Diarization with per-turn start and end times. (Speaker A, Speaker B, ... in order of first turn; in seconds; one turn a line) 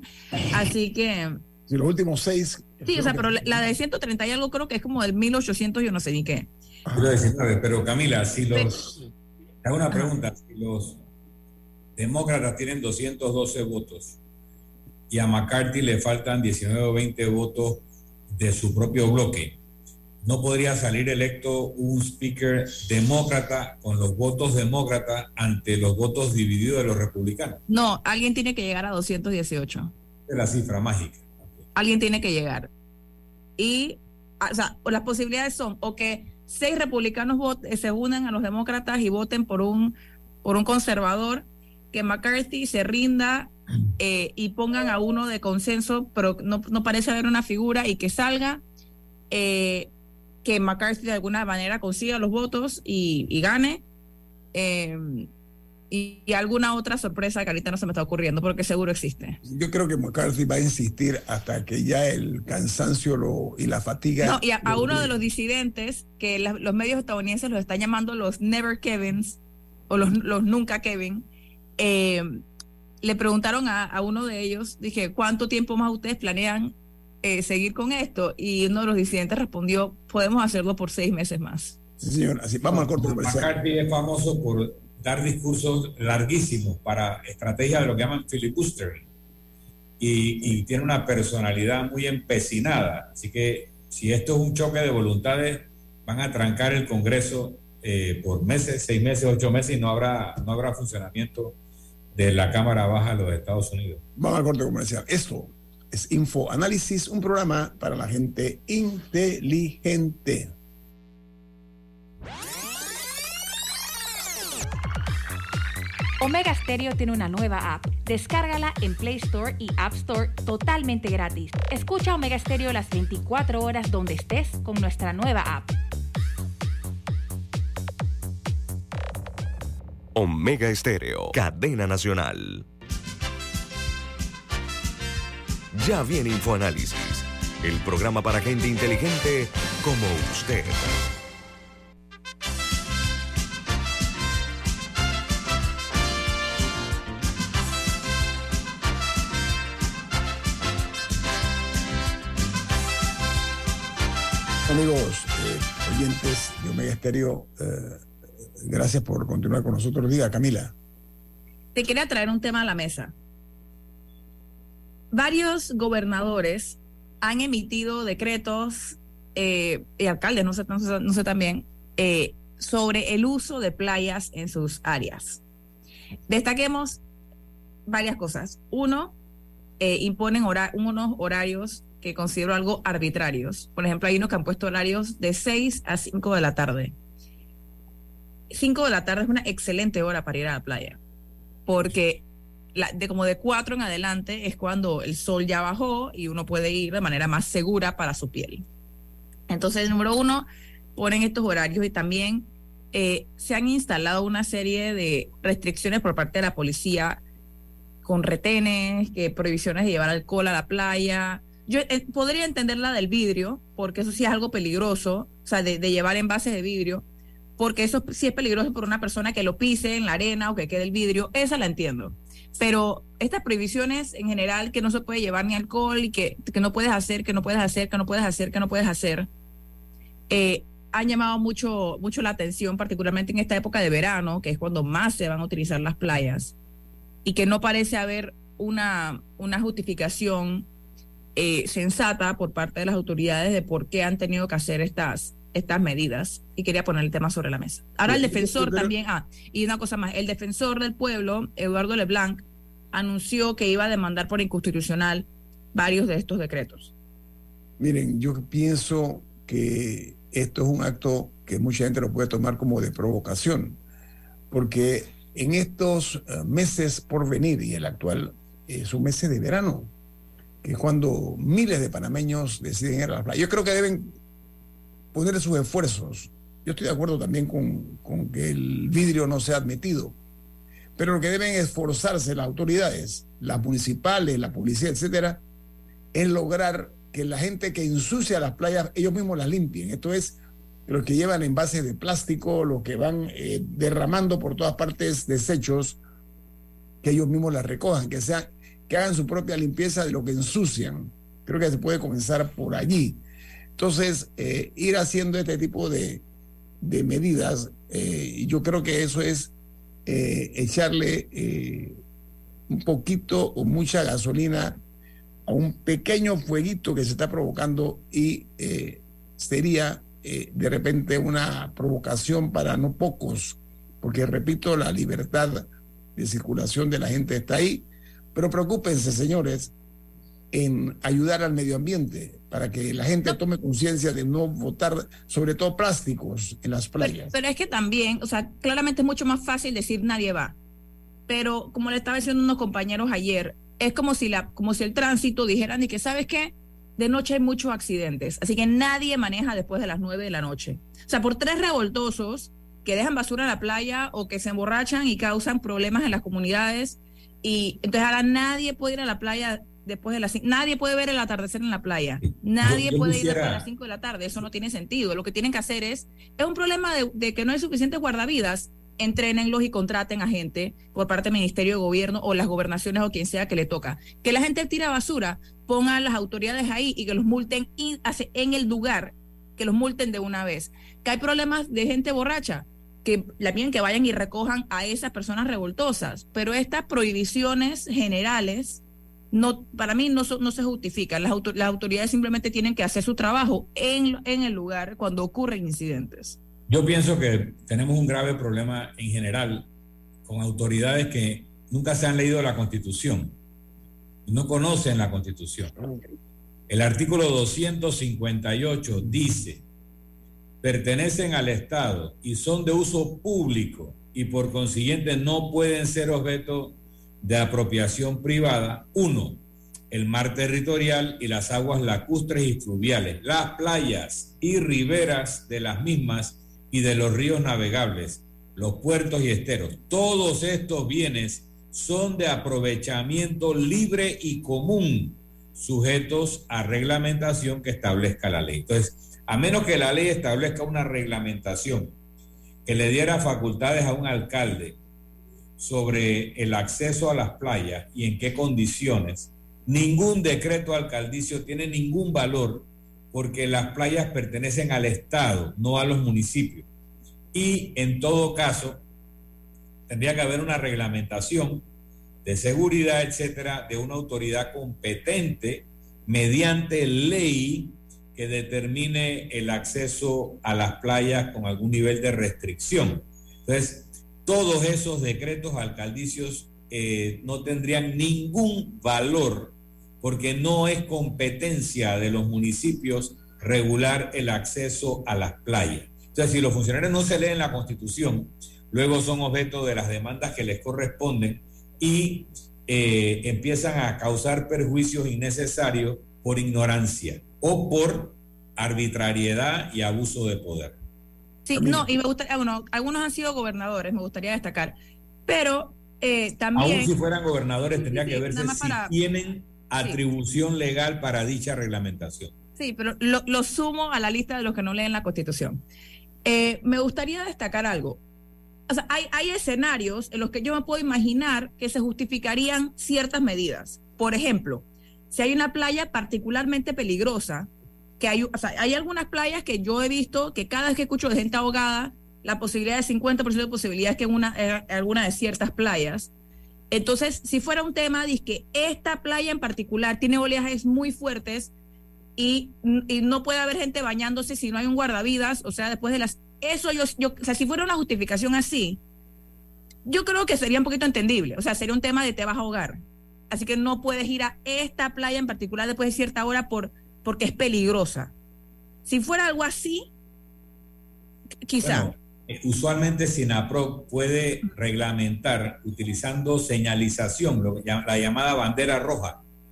Speaker A: 0.5-1.4
Speaker B: 1.7-3.6
Speaker A: 2.9-6.5
Speaker B: 6.8-7.2
Speaker C: 6.9-8.9
Speaker C: 9.6-11.0
Speaker C: 12.0-14.2
Speaker C: 15.1-19.6
Speaker C: 20.2-27.6
Speaker A: 27.7-29.9
Speaker C: 30.3-31.3
Speaker A: 31.7-32.7
Speaker A: 33.6-48.6
Speaker A: 49.3-49.9
Speaker A: 50.4-53.8
Speaker A: 54.5-55.3
Speaker A: 55.9-59.4
Speaker B: 59.4-65.1
Speaker A: 64.2-71.2
Speaker A: 71.8-72.4
Speaker A: 73.0-81.8
Speaker B: 82.0-83.5
Speaker C: 82.7-89.1
Speaker C: 90.0-101.5
Speaker C: 102.1-104.0
Speaker B: 104.2-110.5
Speaker D: 116.2-125.7
Speaker E: 130.1-132.7
Speaker E: 135.7-140.9
Speaker B: 154.7-158.0
Speaker B: 158.6-160.7
Speaker A: 161.7-163.1
Speaker A: 165.1-175.4
Speaker A: 176.3-177.0
Speaker A: 177.8-179.2
Speaker A: 179.8-186.9
Speaker A: 188.5-191.0
Speaker A: 191.7-198.7
Speaker A: 199.5-207.2
Speaker A: 208.0-217.0
Speaker A: 217.6-229.3
Speaker A: 230.3-236.5
Speaker A: 237.2-240.7
Speaker A: 241.3-256.9
Speaker B: 248.0-248.9
Speaker B: 257.8-263.8
Speaker B: 264.5-269.9
Speaker B: 270.6-274.1
Speaker B: 275.1-280.2
Speaker B: 281.0-285.4
Speaker B: 286.1-296.0
Speaker B: 297.0-303.2
Speaker B: 303.8-306.2
Speaker B: 306.8-309.5
Speaker B: 310.1-312.0
Speaker B: 312.7-314.8
Speaker B: 315.4-329.7
Speaker B: 330.5-337.3
Speaker A: 337.0-340.6
Speaker A: 341.3-396.4
Speaker C: 362.6-363.6
Speaker C: 396.7-399.7
Speaker C: 400.2-403.4
Speaker C: 404.3-405.7
Speaker C: 406.7-409.6
Speaker C: 410.6-441.9
Speaker C: 442.6-444.8
Speaker C: 445.6-456.6
Speaker C: 457.3-458.8
Speaker C: 459.9-461.6
Speaker C: 462.2-500.8
Speaker A: 501.4-504.8
Speaker B: 501.5-501.9
Speaker A: 505.3-506.9
Speaker C: 506.5-512.3
Speaker A: 507.8-508.9
Speaker A: 512.6-515.6
Speaker A: 516.2-518.0
Speaker A: 518.7-536.1
Speaker A: 536.7-541.5
Speaker A: 542.2-548.8
Speaker A: 549.8-558.1
Speaker A: 558.8-559.9
Speaker A: 561.5-561.9
Speaker C: 561.6-569.2